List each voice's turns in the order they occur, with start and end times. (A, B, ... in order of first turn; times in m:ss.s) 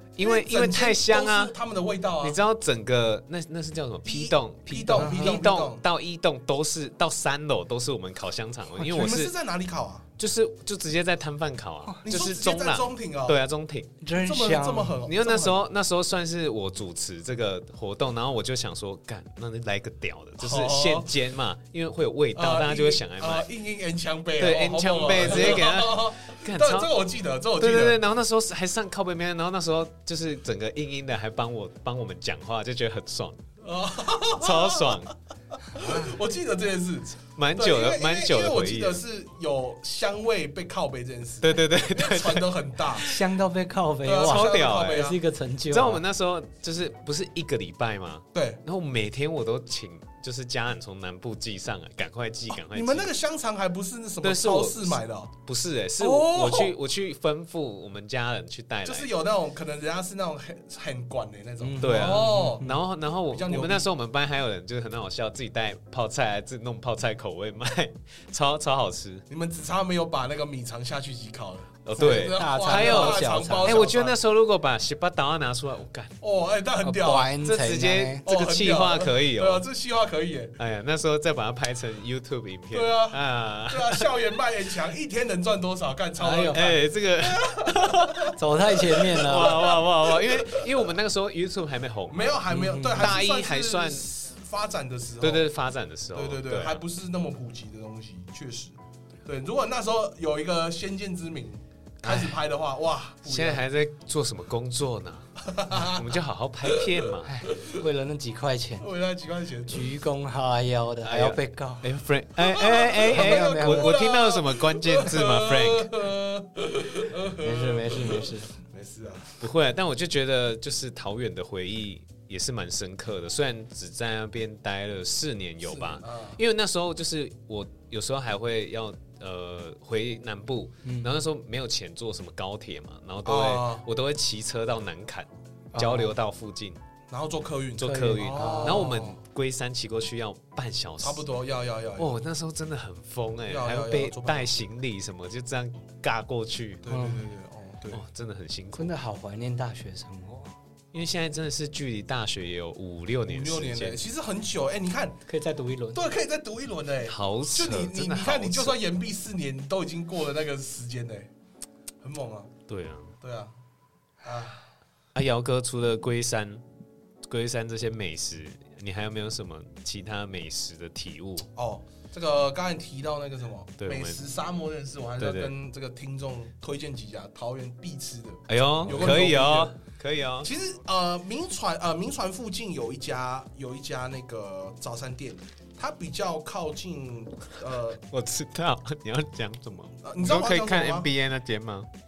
0:00.2-0:01.5 A
0:00.2-0:02.4 B
0:02.2-0:09.3 A
0:04.0-0:05.8 B
0:05.0-0:05.3 C
0:08.8-0:10.1 B
0:10.2-0:13.9 A
0:12.0-0:13.4 B
0:14.0-0:15.0 C
0:14.2-0:15.6 B
0:15.0-0:23.5 A
0:20.4-0:21.1 B
0:22.3-0:28.0 B
0:24.4-0:26.9 A
0:27.6-0:33.4 A
0:33.6-0:35.1 B
0:34.4-0:35.1 A
0:35.7-0:43.1 B
0:35.7-0:36.2 C
0:37.3-0:39.0 A
0:41.4-0:43.1 A
0:43.0-0:46.0 C
0:44.0-0:45.2 B
0:44.2-0:45.1 A
0:45.7-0:53.1 A
0:48.3-0:48.6 B
0:52.5-0:55.3 B
0:54.2-0:59.1 A
0:56.0-0:56.7 B
0:58.8-1:02.7 B
1:01.6-1:02.8 C
1:01.8-1:09.2 A
1:03.2-1:03.9 B
1:09.3-1:14.2 B
1:11.8-1:16.2 A
1:12.0-1:13.8 C
1:16.2-1:17.3 B
1:16.8-1:18.2 C
1:17.4-1:19.6 A
1:18.2-1:20.6 B
1:20.6-1:24.1 A
1:22.7-1:30.9 B
1:26.2-1:26.6 C
1:26.5-1:28.3 A
1:28.4-1:29.6 C
1:29.0-1:34.1 A
1:32.1-1:35.5 B
1:32.5-1:33.1 C
1:35.2-1:36.8 A
1:36.1-1:43.6 B
1:42.0-1:42.4 A
1:43.2-1:47.4 A
1:45.4-1:47.8 B
1:47.2-1:48.9 C
1:48.8-1:49.9 B
1:49.7-1:51.9 C
1:51.0-1:55.9 A
1:52.4-1:59.4 B
1:53.0-1:54.0 C
1:57.4-1:58.6 C
1:59.4-2:16.8 A
2:05.6-2:06.4 B
2:10.8-2:11.1 C
2:13.2-2:13.8 B
2:15.7-2:16.1 C
2:17.1-2:19.2 B
2:17.8-2:21.2 A
2:17.8-2:19.1 C
2:21.0-2:22.2 B
2:22.0-2:26.8 A
2:23.5-2:24.6 B
2:26.8-2:28.0 B
2:26.9-2:27.2 C
2:27.9-2:28.9 A
2:28.7-2:30.5 C
2:30.9-2:34.0 A
2:33.3-2:35.2 B
2:35.2-2:36.0 C
2:35.9-2:41.3 B
2:37.0-2:38.8 A
2:42.0-2:42.5 B
2:42.7-2:43.1 A
2:43.2-2:43.5 B
2:44.2-2:44.6 B
2:45.1-2:46.6 A
2:47.2-2:51.5 A
2:51.6-2:59.7 B
2:53.8-2:54.2 A
2:55.2-2:55.5 A
2:58.5-3:00.5 A
3:00.4-3:08.0 B
3:08.1-3:11.9 A
3:10.0-3:11.1 B